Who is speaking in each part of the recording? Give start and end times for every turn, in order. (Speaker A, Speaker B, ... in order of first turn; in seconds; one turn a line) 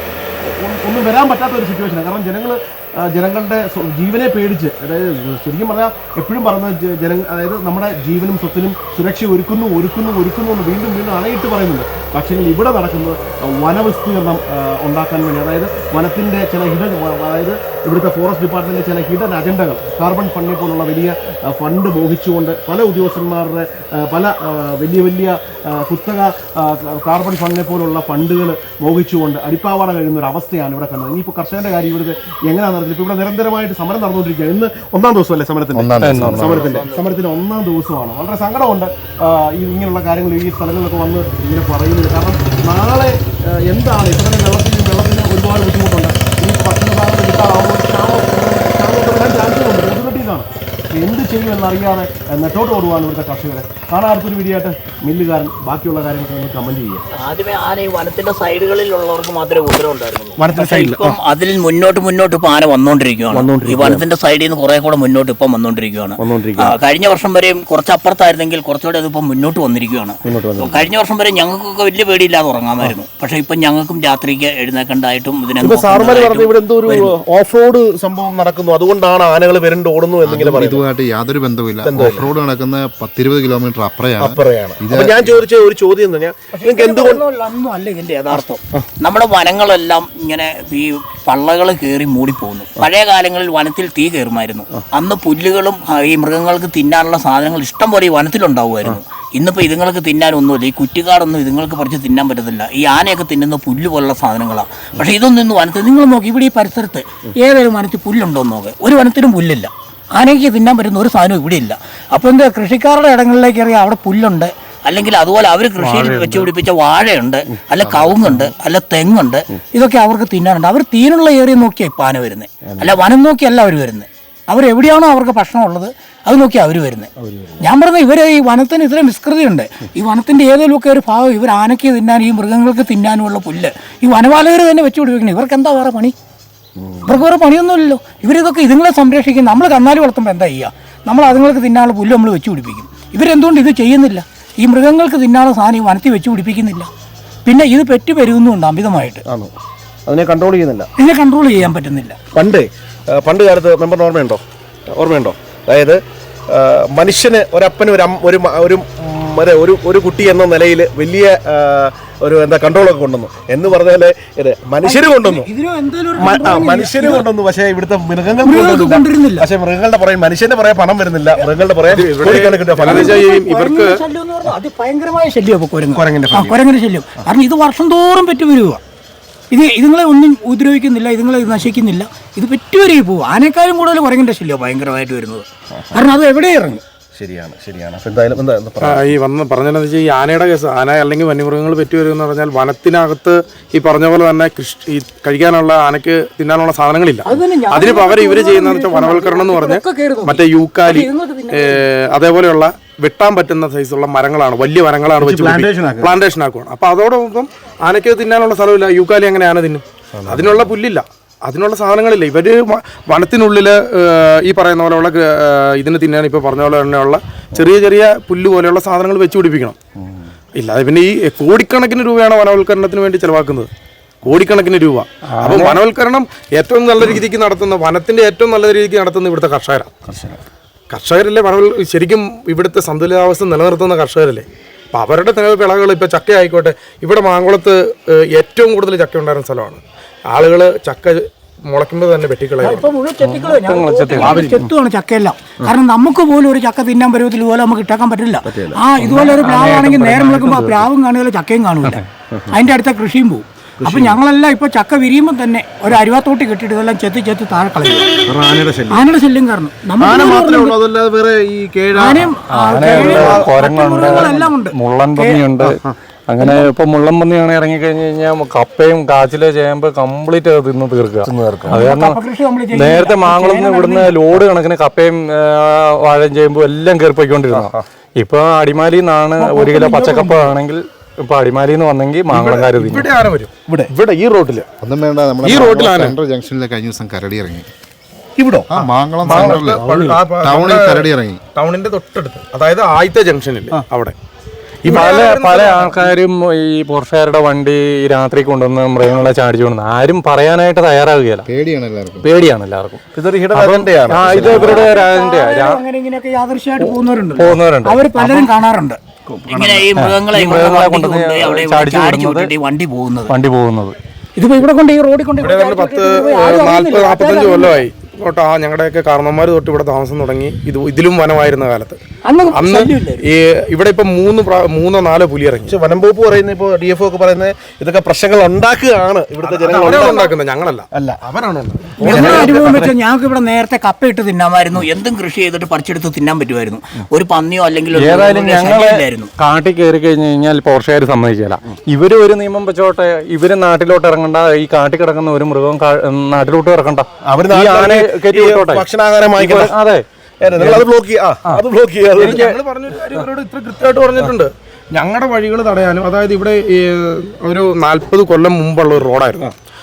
Speaker A: 0.4-57.0
Speaker B: 35.7-36.7
Speaker C: 36.0-36.7
Speaker D: 36.7-37.0
Speaker D: 57.4-63.5
Speaker A: 60.4-61.2
Speaker A: 63.3-64.1
Speaker D: 64.1-66.1
Speaker A: 66.2-66.8
Speaker D: 66.9-70.1
Speaker A: 70.2-70.9
Speaker D: 71.0-75.4
Speaker A: 75.6-80.8
Speaker D: 76.9-77.1
Speaker B: 80.2-85.4
Speaker A: 81.8-82.3
Speaker A: 84.2-87.2
Speaker D: 86.5-136.1
Speaker A: 88.3-88.8
Speaker C: 115.8-116.5
Speaker A: 117.6-118.5
Speaker A: 122.7-122.9
Speaker A: 127.2-127.6
Speaker A: 136.8-137.2
Speaker D: 137.0-146.9
Speaker D: 147.4-149.2
Speaker A: 149.3-149.5
Speaker A: 150.1-150.9
Speaker D: 151.0-152.2
Speaker A: 152.3-154.4
Speaker A: 154.9-165.5
Speaker D: 164.8-167.2
Speaker A: 166.2-173.2
Speaker D: 168.4-169.5
Speaker E: 171.9-173.9
Speaker D: 172.3-178.8
Speaker A: 175.9-176.6
Speaker D: 179.5-186.8
Speaker A: 185.8-186.0
Speaker A: 187.1-189.1
Speaker E: 188.8-219.8
Speaker D: 197.2-201.8
Speaker A: 205.2-206.2
Speaker A: 210.1-210.7
Speaker E: 220.6-223.7
Speaker E: 224.2-229.9
Speaker C: 225.3-225.8
Speaker A: 230.1-230.4
Speaker E: 230.9-242.9
Speaker D: 242.6-258.1
Speaker C: 243.2-244.5
Speaker E: 244.2-244.6
Speaker A: 248.4-248.8
Speaker C: 249.0-250.9
Speaker A: 253.8-254.2
Speaker A: 258.3-259.0
Speaker D: 258.9-260.7
Speaker A: 260.0-264.5
Speaker D: 261.9-265.4
Speaker C: 262.5-272.2
Speaker A: 265.6-265.9
Speaker D: 266.4-266.7
Speaker A: 271.2-271.8
Speaker D: 271.7-274.1
Speaker C: 272.7-283.1
Speaker A: 277.5-277.8
Speaker D: 279.4-280.5
Speaker E: 282.3-284.7
Speaker B: 284.8-287.7
Speaker E: 285.4-286.1
Speaker A: 288.4-288.9
Speaker B: 288.7-289.9
Speaker C: 289.3-289.7
Speaker E: 289.3-294.1
Speaker A: 289.7-290.2
Speaker B: 290.4-291.4
Speaker E: 294.8-296.1
Speaker C: 294.8-301.5
Speaker B: 301.4-302.2
Speaker C: 302.2-303.0
Speaker A: 303.1-304.9
Speaker C: 303.5-305.8
Speaker B: 304.3-304.6
Speaker D: 304.4-309.0
Speaker C: 307.4-308.0
Speaker A: 308.2-308.5
Speaker A: 309.3-309.9
Speaker D: 309.5-313.3
Speaker C: 309.9-312.5
Speaker C: 313.3-313.9
Speaker D: 314.4-317.8
Speaker E: 315.4-322.0
Speaker D: 322.2-323.2
Speaker E: 322.5-325.7
Speaker A: 325.7-330.3
Speaker E: 329.4-332.9
Speaker D: 329.8-330.3
Speaker A: 330.9-331.2
Speaker D: 332.0-339.3
Speaker A: 332.1-332.7
Speaker C: 332.1-332.5
Speaker C: 337.9-348.8
Speaker A: 347.2-349.7
Speaker C: 349.4-350.0
Speaker A: 350.4-352.4
Speaker C: 350.6-350.8
Speaker C: 352.2-352.5
Speaker E: 352.2-359.5